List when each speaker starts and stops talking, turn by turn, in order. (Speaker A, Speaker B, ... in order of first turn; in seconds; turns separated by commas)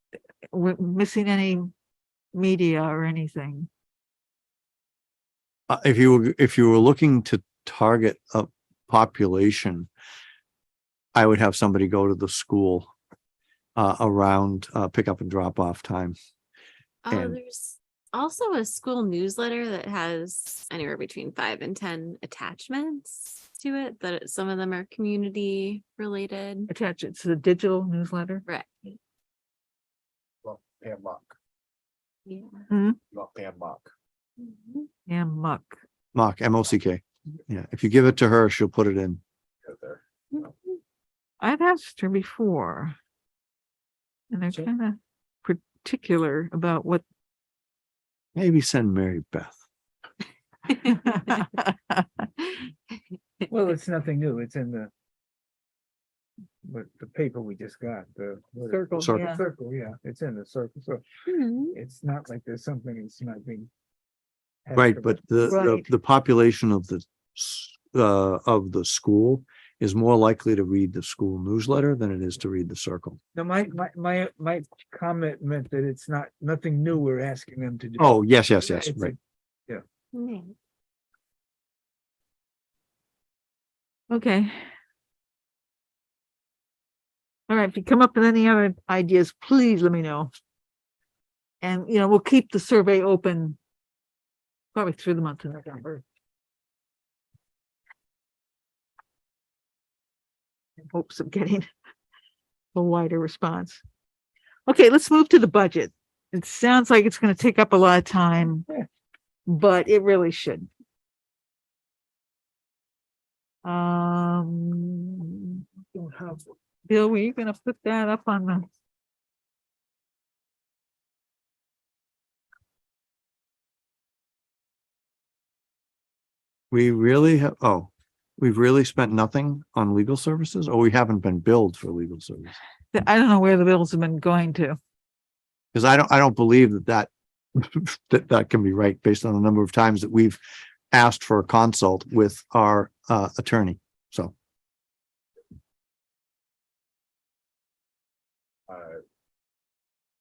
Speaker A: 0.5-1.7, Speaker A: 2.3-3.7, Speaker B: 5.7-9.9, Speaker B: 11.2-12.9, Speaker B: 13.8-16.2, Speaker C: 17.1-26.7, Speaker B: 17.1-17.4, Speaker A: 26.7-28.4, Speaker C: 28.5-28.9, Speaker D: 30.4-31.3, Speaker C: 32.3-32.6, Speaker A: 32.7-33.0, Speaker D: 33.1-33.9, Speaker C: 34.4-34.9, Speaker A: 35.1-35.8, Speaker B: 36.1-37.0, Speaker B: 37.5-39.2, Speaker D: 39.6-40.5, Speaker A: 41.4-43.0, Speaker A: 44.3-47.0, Speaker B: 48.4-49.6, Speaker A: 50.8-52.2, Speaker E: 53.5-54.9, Speaker E: 56.6-61.0, Speaker A: 58.7-59.4, Speaker C: 61.3-61.8, Speaker E: 61.7-63.7, Speaker E: 64.7-65.2, Speaker B: 64.8-73.2, Speaker A: 65.5-65.9, Speaker E: 73.3-79.2, Speaker B: 78.0-79.1, Speaker C: 80.1-80.6, Speaker A: 84.1-84.6, Speaker A: 87.5-90.3, Speaker A: 91.6-93.6, Speaker A: 94.7-96.0, Speaker A: 100.9-101.7, Speaker A: 102.7-103.8, Speaker A: 104.7-108.7, Speaker A: 109.5-110.7, Speaker A: 113.6-115.6, Speaker E: 115.9-116.4, Speaker A: 116.9-118.7, Speaker B: 126.7-132.6, Speaker A: 132.9-134.8, Speaker B: 135.7-140.4, Speaker B: 140.9-144.3, Speaker D: 148.7-149.0